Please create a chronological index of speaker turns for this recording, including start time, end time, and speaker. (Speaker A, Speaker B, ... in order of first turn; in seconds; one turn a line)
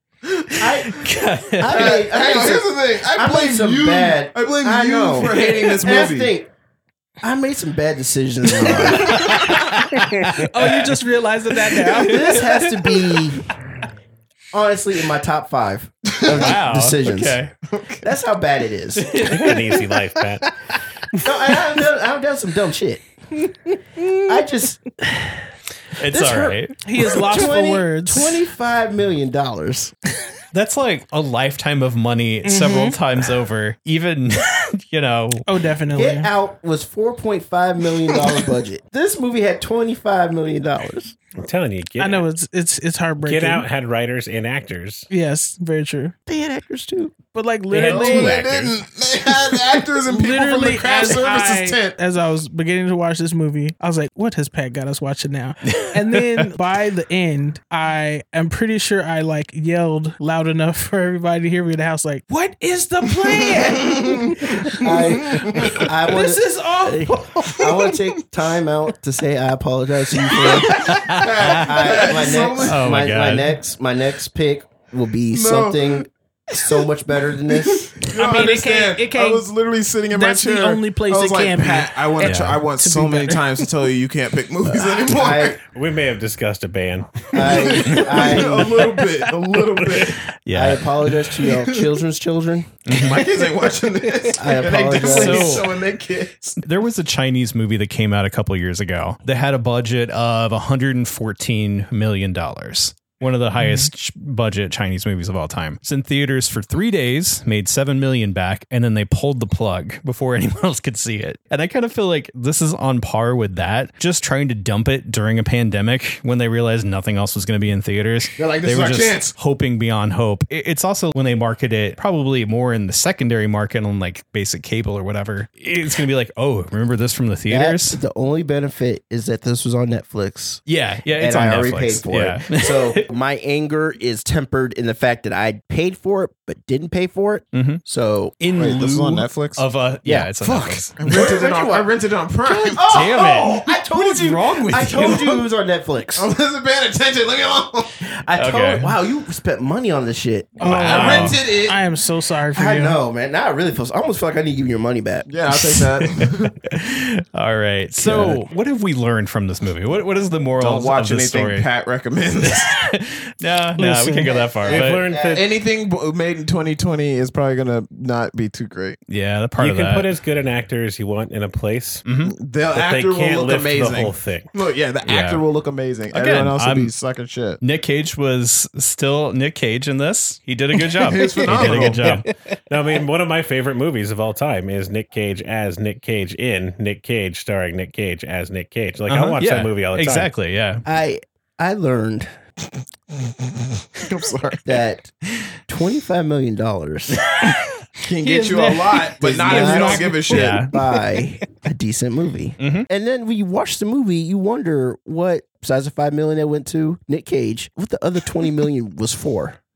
Speaker A: 0.5-1.9
Speaker B: 0.6-1.0
Speaker B: 1.6-6.5
Speaker C: 1.7-6.3
Speaker B: 7.2-9.5
Speaker A: 8.6-13.4
Speaker C: 9.0-9.7
Speaker D: 10.5-12.3
Speaker B: 12.0-13.4
Speaker B: 14.5-17.4
Speaker A: 16.3-17.5
Speaker C: 17.7-18.0
Speaker B: 18.0-19.4
Speaker A: 19.0-19.9
Speaker E: 19.3-20.5
Speaker B: 21.2-23.0
Speaker B: 24.3-25.3
Speaker A: 26.0-26.8
Speaker B: 26.1-29.9
Speaker D: 26.8-28.4
Speaker A: 30.5-35.5
Speaker D: 32.4-33.0
Speaker D: 35.5-36.3
Speaker B: 35.9-41.1
Speaker E: 41.4-42.3
Speaker D: 42.0-43.6
Speaker E: 43.2-45.1
Speaker D: 45.1-46.1
Speaker B: 46.3-47.1
Speaker D: 47.3-48.4
Speaker E: 47.7-48.7
Speaker C: 47.8-52.0
Speaker D: 50.1-65.0
Speaker A: 55.6-56.5
Speaker C: 63.3-65.8
Speaker B: 64.8-77.9
Speaker D: 65.7-67.9
Speaker C: 70.5-72.9
Speaker A: 70.6-73.6
Speaker C: 75.3-76.9
Speaker C: 77.4-85.6
Speaker D: 78.1-79.5
Speaker D: 80.1-83.7
Speaker A: 82.2-82.6
Speaker B: 84.7-85.6
Speaker E: 85.7-87.7
Speaker B: 87.3-88.9
Speaker C: 87.4-90.2
Speaker E: 89.8-90.1
Speaker A: 90.5-91.3
Speaker B: 90.5-92.7
Speaker A: 92.9-93.3
Speaker C: 92.9-96.6
Speaker B: 94.4-95.6
Speaker A: 95.0-95.7
Speaker A: 96.6-128.0
Speaker C: 118.4-119.3
Speaker B: 127.5-130.6
Speaker A: 130.7-133.1
Speaker B: 131.1-138.5
Speaker A: 137.5-137.8
Speaker A: 138.4-141.2
Speaker C: 138.5-139.6
Speaker B: 140.0-141.9
Speaker C: 140.9-145.4
Speaker B: 142.4-146.3
Speaker A: 142.8-145.4
Speaker C: 146.2-147.9
Speaker B: 148.0-151.0
Speaker A: 148.4-148.9
Speaker A: 150.6-151.4
Speaker C: 150.6-151.8
Speaker D: 150.6-153.0
Speaker B: 152.5-155.3
Speaker C: 155.3-156.6
Speaker A: 155.6-161.7
Speaker C: 158.0-158.4
Speaker C: 160.6-162.7
Speaker A: 162.4-165.1
Speaker D: 163.8-164.3
Speaker B: 164.2-165.4
Speaker E: 164.6-165.5
Speaker C: 165.1-169.0
Speaker A: 169.1-170.1
Speaker E: 169.6-172.0
Speaker A: 172.0-172.4
Speaker C: 172.2-177.6
Speaker E: 172.7-174.5
Speaker A: 175.0-175.4
Speaker A: 176.1-176.9
Speaker A: 177.6-182.3
Speaker C: 180.9-182.2
Speaker E: 181.6-190.3
Speaker A: 189.1-190.8
Speaker B: 190.8-192.3
Speaker C: 193.1-194.6
Speaker B: 194.6-195.1
Speaker B: 195.7-197.2
Speaker A: 197.2-197.6
Speaker C: 198.0-200.7
Speaker D: 198.2-200.8
Speaker B: 199.2-209.6
Speaker A: 200.2-200.7
Speaker A: 202.6-202.9